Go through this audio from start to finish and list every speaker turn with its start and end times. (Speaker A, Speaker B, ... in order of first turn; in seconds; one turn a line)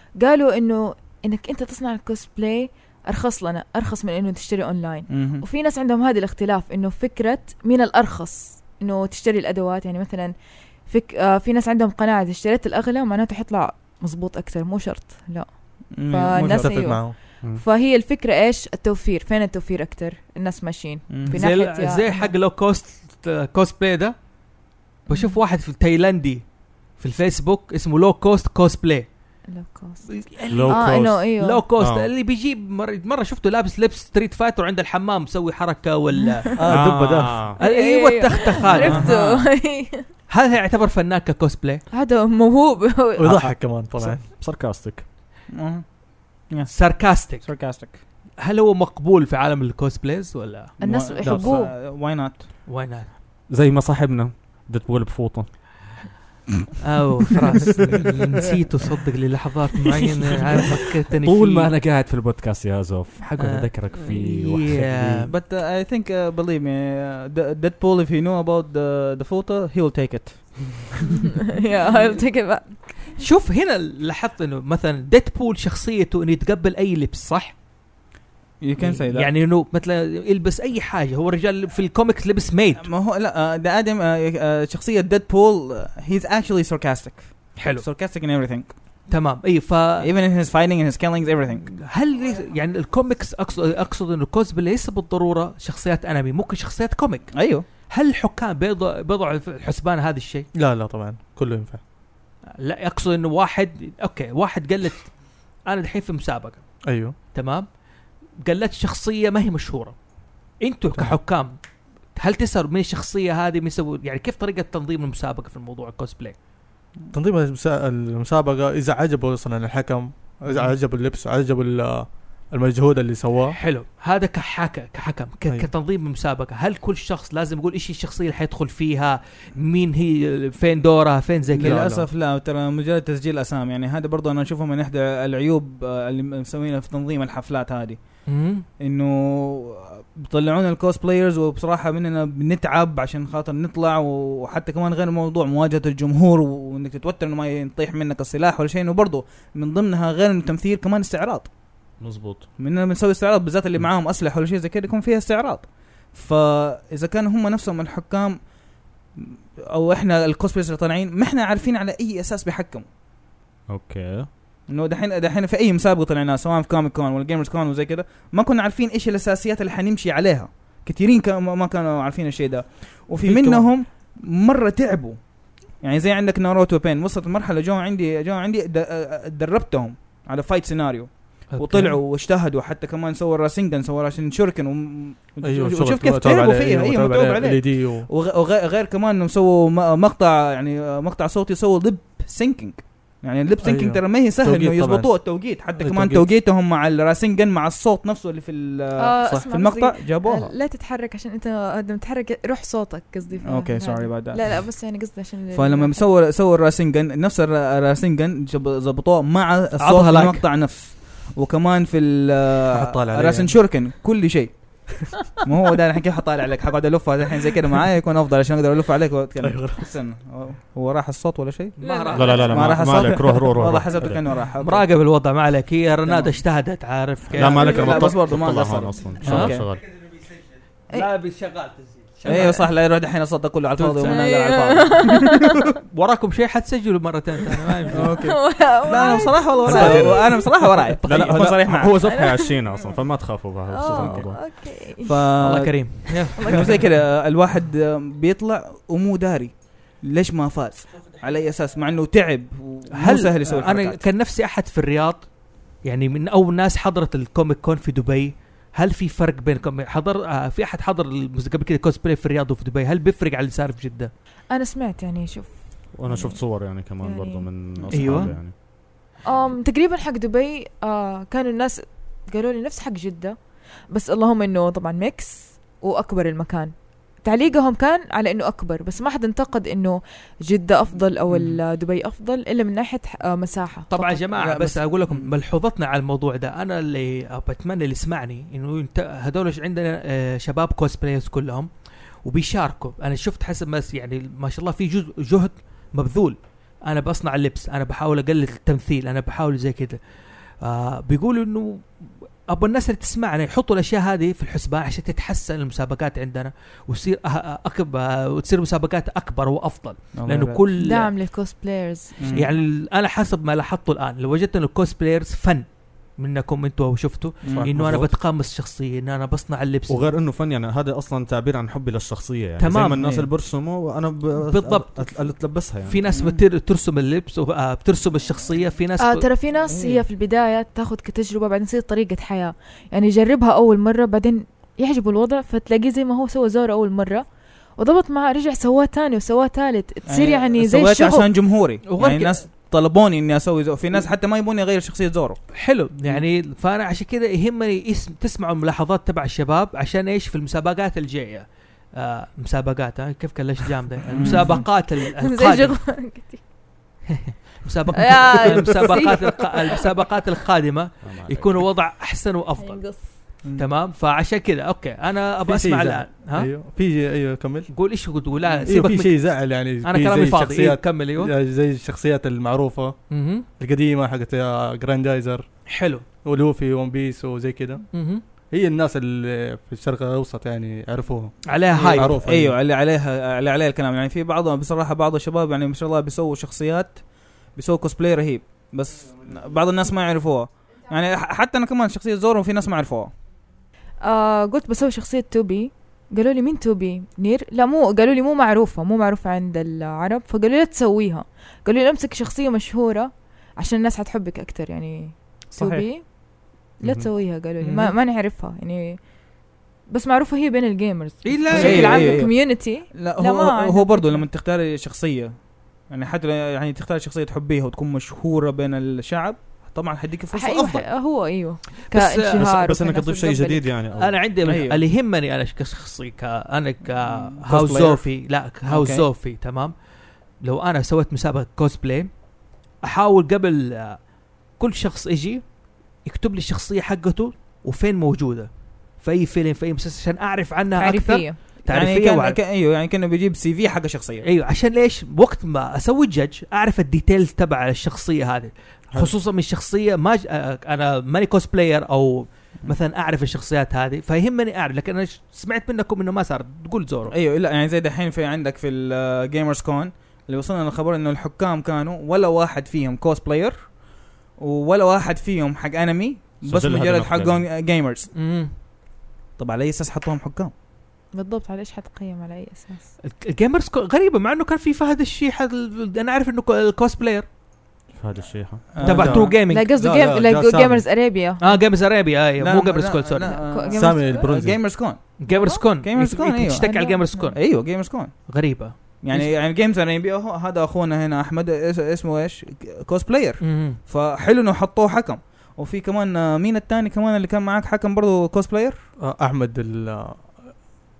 Speaker A: 0.2-10.3
Speaker B: 5.1-5.4
Speaker A: 10.8-22.3
Speaker B: 15.9-16.8
Speaker C: 16.4-17.1
Speaker B: 21.1-21.4
Speaker D: 21.3-24.2
Speaker A: 25.1-25.4
Speaker D: 25.1-26.4
Speaker D: 27.0-29.1
Speaker A: 29.5-31.6
Speaker D: 30.1-39.2
Speaker E: 30.5-32.1
Speaker C: 36.6-37.5
Speaker E: 36.7-37.6
Speaker A: 37.6-40.1
Speaker B: 38.7-39.4
Speaker D: 40.3-41.8
Speaker A: 41.9-43.3
Speaker C: 43.2-44.3
Speaker E: 44.2-45.0
Speaker B: 45.6-48.0
Speaker D: 46.7-47.5
Speaker D: 48.4-50.8
Speaker A: 50.8-51.7
Speaker B: 50.8-52.5
Speaker C: 51.2-51.5
Speaker D: 52.7-53.1
Speaker E: 53.5-56.0
Speaker D: 56.8-61.7
Speaker E: 61.2-65.3
Speaker D: 63.4-65.3
Speaker B: 65.3-71.0
Speaker A: 71.5-73.1
Speaker D: 73.2-77.5
Speaker B: 78.6-79.3
Speaker D: 78.8-82.9
Speaker B: 82.8-88.7
Speaker D: 87.6-87.8
Speaker D: 89.1-90.1
Speaker B: 90.0-91.7
Speaker D: 91.6-100.5
Speaker B: 97.4-97.6
Speaker C: 100.5-101.8
Speaker D: 102.6-105.1
Speaker D: 105.7-106.6
Speaker C: 106.8-107.1
Speaker D: 107.3-107.7
Speaker D: 108.4-110.0
Speaker D: 110.6-111.5
Speaker D: 112.1-116.3
Speaker C: 117.1-123.6
Speaker D: 123.5-131.8
Speaker B: 131.6-138.2
Speaker C: 131.6-132.1
Speaker D: 138.3-138.6
Speaker B: 138.8-151.5
Speaker E: 152.0-152.5
Speaker B: 152.6-158.5
Speaker B: 159.1-162.9
Speaker E: 163.7-164.3
Speaker B: 164.7-175.2
Speaker D: 173.2-173.7
Speaker B: 175.8-200.5
Speaker D: 181.5-182.0
Speaker C: 185.4-188.1
Speaker C: 193.6-195.2
Speaker C: 195.8-196.3
Speaker A: 199.0-206.0
Speaker B: 203.4-204.7
Speaker B: 205.5-221.8
Speaker D: 209.8-210.4
Speaker C: 212.7-213.6
Speaker C: 214.9-215.3
Speaker C: 219.4-219.9
Speaker A: 221.8-222.8
Speaker D: 221.8-223.2
Speaker E: 222.1-224.2
Speaker B: 222.5-224.8
Speaker D: 224.6-228.1
Speaker B: 226.0-226.3
Speaker B: 227.3-229.7
Speaker E: 227.3-229.8
Speaker D: 229.2-230.2
Speaker D: 230.9-232.7
Speaker B: 232.2-235.4
Speaker A: 232.3-232.5
Speaker D: 233.8-234.5
Speaker A: 234.0-235.6
Speaker D: 235.9-238.1
Speaker B: 237.9-242.0
Speaker A: 238.2-240.4
Speaker D: 239.6-241.4
Speaker E: 241.0-244.4
Speaker A: 242.1-242.5
Speaker A: 243.7-245.2
Speaker B: 243.9-244.3
Speaker B: 245.0-254.0
Speaker D: 245.4-246.8
Speaker A: 246.4-246.7
Speaker D: 252.9-264.1
Speaker A: 264.5-267.5
Speaker E: 265.9-268.5
Speaker B: 267.9-268.3
Speaker D: 267.9-268.3
Speaker A: 269.2-273.4
Speaker A: 273.9-284.2
Speaker B: 281.3-281.6
Speaker D: 283.9-291.7
Speaker B: 284.3-285.3
Speaker D: 292.2-300.0
Speaker D: 300.6-311.1
Speaker B: 310.1-310.6
Speaker A: 310.8-312.4
Speaker B: 312.2-312.5
Speaker D: 312.3-315.6
Speaker D: 316.2-320.1
Speaker B: 317.4-317.7
Speaker C: 317.6-318.1
Speaker E: 319.9-326.0
Speaker D: 322.6-323.1
Speaker B: 322.9-323.3
Speaker D: 324.4-329.3
Speaker B: 326.1-326.4
Speaker A: 329.0-337.2
Speaker B: 329.7-330.0
Speaker A: 337.8-341.3
Speaker B: 340.1-345.4
Speaker D: 341.9-342.4
Speaker D: 345.5-355.8
Speaker B: 354.1-354.6
Speaker A: 354.2-356.4
Speaker D: 357.1-362.8
Speaker A: 357.9-359.8
Speaker E: 361.0-361.7
Speaker A: 362.6-363.1
Speaker D: 363.6-366.5
Speaker C: 365.5-367.7
Speaker D: 367.7-371.3
Speaker B: 368.4-368.8
Speaker C: 368.6-372.9
Speaker D: 373.1-373.4
Speaker C: 373.6-375.4
Speaker D: 375.7-376.0
Speaker C: 376.2-377.8
Speaker D: 377.9-378.2
Speaker C: 378.5-382.6
Speaker D: 381.5-382.1
Speaker B: 381.7-387.0
Speaker B: 387.6-393.1
Speaker A: 394.0-406.0
Speaker B: 405.6-405.8
Speaker A: 406.8-409.0
Speaker E: 406.8-407.1
Speaker D: 407.6-407.9
Speaker A: 409.9-414.2
Speaker D: 411.2-412.3
Speaker B: 411.5-415.4
Speaker B: 415.9-420.9
Speaker A: 420.3-423.7
Speaker D: 421.9-422.4
Speaker E: 422.3-424.2
Speaker D: 423.9-429.7
Speaker B: 424.4-424.8
Speaker B: 427.1-428.0
Speaker B: 428.7-429.0
Speaker D: 430.4-432.1
Speaker D: 432.8-434.0
Speaker D: 434.6-435.4
Speaker D: 436.0-442.4
Speaker A: 440.8-441.4
Speaker B: 441.7-444.2
Speaker D: 444.2-457.1
Speaker B: 457.1-463.8
Speaker B: 464.4-468.1
Speaker E: 466.4-467.4
Speaker D: 468.1-468.5
Speaker B: 469.4-470.5
Speaker A: 471.1-472.9
Speaker D: 473.0-477.2
Speaker E: 477.9-479.0
Speaker B: 478.7-479.4
Speaker D: 478.8-479.7
Speaker A: 479.5-481.6
Speaker C: 479.7-480.8
Speaker D: 481.4-483.4
Speaker B: 482.4-485.1
Speaker A: 483.2-484.3
Speaker C: 483.7-484.6
Speaker D: 485.2-487.4
Speaker A: 485.3-485.7
Speaker B: 485.8-486.6
Speaker A: 486.6-487.4
Speaker B: 487.3-488.3
Speaker D: 488.3-489.3
Speaker B: 489.0-498.8
Speaker D: 493.4-493.8
Speaker C: 499.0-500.6